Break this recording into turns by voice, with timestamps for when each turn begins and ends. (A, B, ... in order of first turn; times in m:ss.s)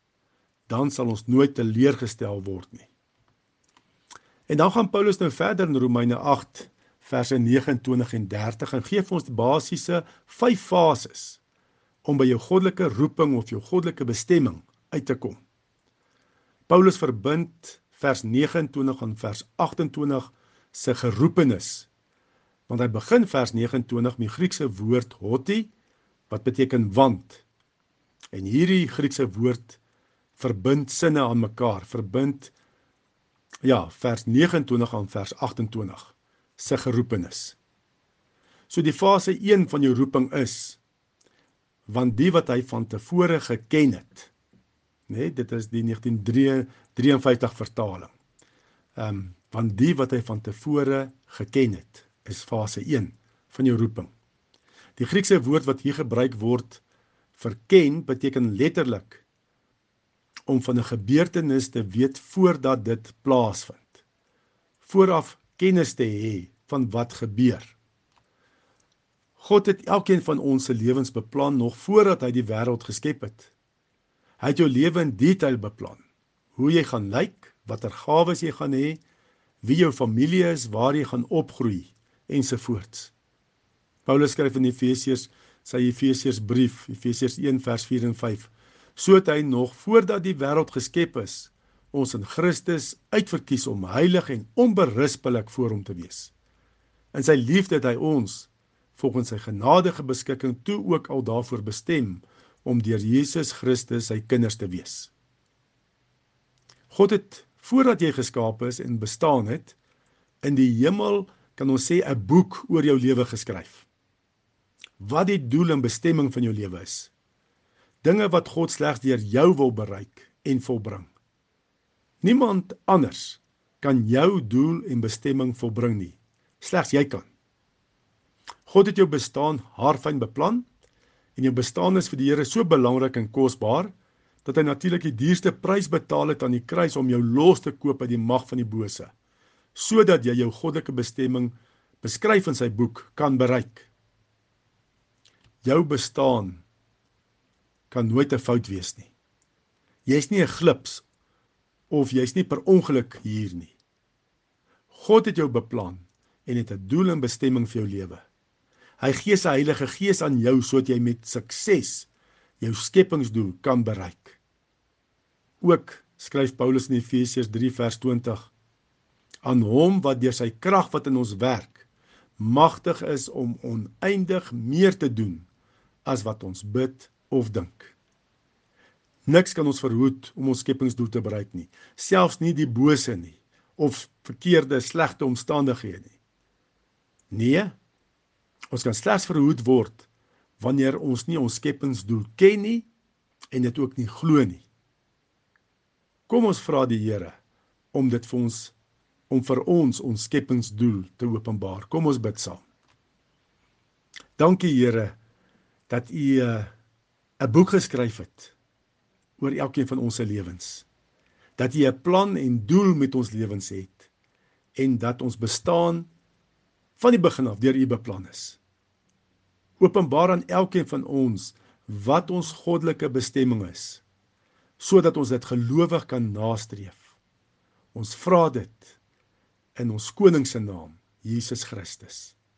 0:00.7-0:02.9 A
0:04.5-0:11.4 A
0:12.0-0:15.4 A
0:16.7-0:21.9 A
0:22.7-0:25.7 A
0:26.3-0:27.4 A
0:28.3-0:29.8 A
0:30.4-0:32.5 A
0:33.6-0:37.6 A
0:38.7-0:40.8 A
0:41.9-0:44.3 A
0:45.1-0:48.1 A
0:49.0-0:54.1 A
0:55.0-0:56.8 A
0:57.4-0:59.2 A
1:00.5-1:03.9 A
1:04.8-1:07.7 A
1:09.4-1:13.5 A
1:14.4-1:16.0 A
1:16.6-1:19.0 A
1:19.6-1:23.1 A
1:24.0-1:36.3 A
1:37.1-1:45.1 A
1:46.9-1:49.8 A
1:50.4-1:53.8 A
1:55.0-1:57.1 A
1:58.0-2:01.1 A
2:02.2-2:07.3 A
2:08.7-2:10.6 A
2:11.4-2:13.9 A
2:14.4-2:19.1 A
2:19.7-2:23.9 A
2:25.6-2:26.6 A
2:27.9-2:29.1 A
2:30.0-2:31.0 A
2:31.9-2:33.7 A
2:34.9-2:38.2 A
2:39.0-2:42.1 A
2:42.6-2:44.4 A
2:45.6-2:48.5 A
2:49.4-2:51.8 A
2:52.4-2:55.4 A
2:56.0-2:57.9 A
2:59.2-3:06.2 A
3:07.3-3:07.8 A
3:08.7-3:10.1 A
3:10.6-3:12.9 A
3:13.5-3:14.6 A
3:16.3-3:17.3 A
3:17.9-3:18.7 A
3:19.3-3:22.6 A
3:24.4-3:25.2 A
3:25.9-3:26.7 A
3:27.4-3:28.5 A
3:29.4-3:30.9 A
3:31.6-3:34.1 A
3:34.8-3:36.1 A
3:37.0-3:38.6 A
3:39.8-3:44.0 A
3:44.8-3:47.2 A
3:47.9-3:49.0 A
3:49.7-3:52.3 A